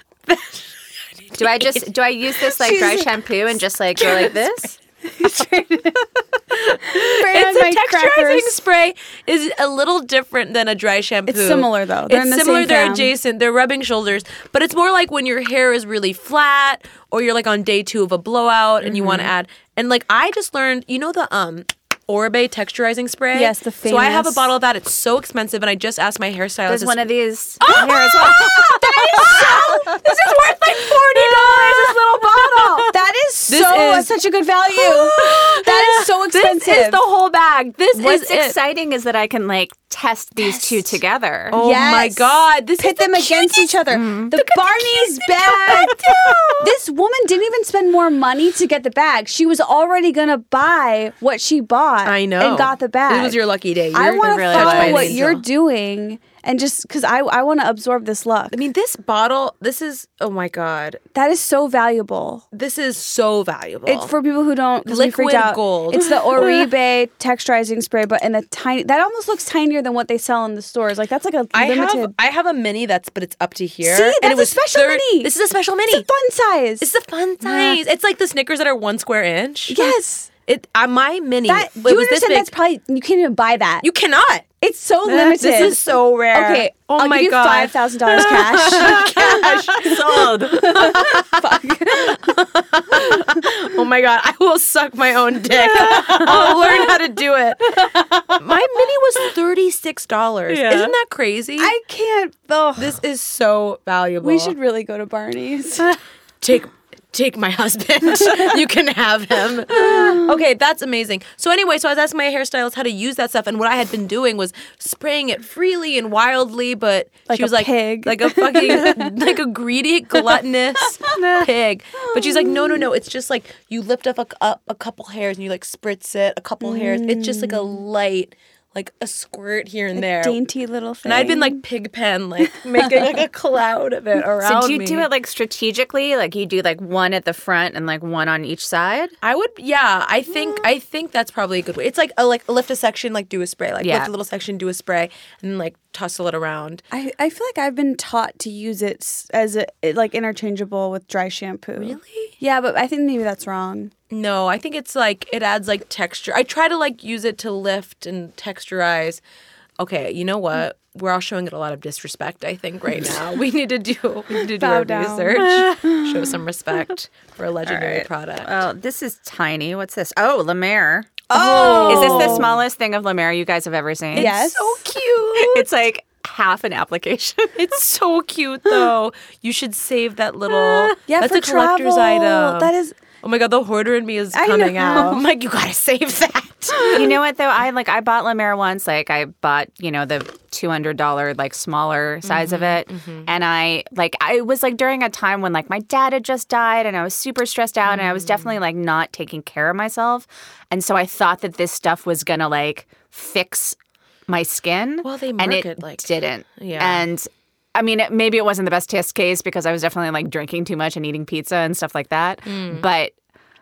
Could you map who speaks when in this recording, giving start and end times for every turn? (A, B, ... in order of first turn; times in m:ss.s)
0:00.3-0:03.0 A
0:01.4-0:04.7 B
0:02.6-0:03.0 C
0:04.0-0:04.5 A
0:05.2-0:05.9 C
0:06.5-0:27.1 A
0:06.8-0:08.6 C
0:11.3-0:13.1 C
0:18.9-0:19.3 B
0:23.3-0:24.5 C
0:26.7-0:29.8 B
0:27.6-0:32.9 A
0:28.8-0:30.0 C
0:32.8-0:37.0 C
0:33.5-0:34.1 A
0:34.7-0:38.6 A
0:37.9-0:41.6 B
0:40.4-0:41.0 A
0:41.5-0:46.7 A
0:41.5-0:58.6 C
0:43.9-0:44.3 B
0:46.1-0:46.4 B
0:52.0-0:55.4 A
0:54.2-0:55.2 B
0:58.5-1:01.0 A
1:01.1-1:02.4 C
1:02.5-1:04.1 A
1:03.8-1:12.1 C
1:04.8-1:06.7 A
1:11.5-1:16.1 A
1:13.8-1:15.3 C
1:15.9-1:16.9 C
1:16.8-1:22.5 A
1:17.4-1:17.7 C
1:19.7-1:20.3 C
1:21.5-1:23.9 C
1:23.8-1:24.4 A
1:24.6-1:32.4 C
1:25.1-1:41.7 A
1:28.8-1:29.1 B
1:29.7-1:30.7 B
1:35.5-1:36.8 B
1:37.8-1:38.3 B
1:40.5-1:40.9 B
1:41.6-1:43.0 C
1:42.8-1:44.6 A
1:44.2-1:45.9 C
1:46.4-2:10.4 A
1:49.8-1:50.3 C
1:57.3-1:59.2 C
2:02.0-2:02.8 C
2:06.6-2:07.8 C
2:09.9-2:11.6 C
2:11.0-2:15.1 A
2:14.4-2:19.1 B
2:19.2-2:26.8 A
2:23.8-2:24.1 B
2:26.9-2:33.9 C
2:31.8-2:32.3 A
2:34.1-2:39.2 A
2:39.8-2:48.6 A
2:44.3-2:46.0 C
2:45.4-2:45.8 B
2:47.6-2:54.4 B
2:51.3-2:52.5 C
2:51.3-2:52.6 A
2:54.1-2:54.8 C
2:54.1-2:55.7 A
2:55.3-2:57.7 B
2:57.6-3:07.2 A
3:01.1-3:03.0 C
3:04.3-3:05.2 C
3:06.9-3:23.8 B
3:12.2-3:13.3 A
3:17.8-3:18.5 A
3:24.3-3:33.1 B
3:25.0-3:27.0 A
3:32.4-3:32.8 A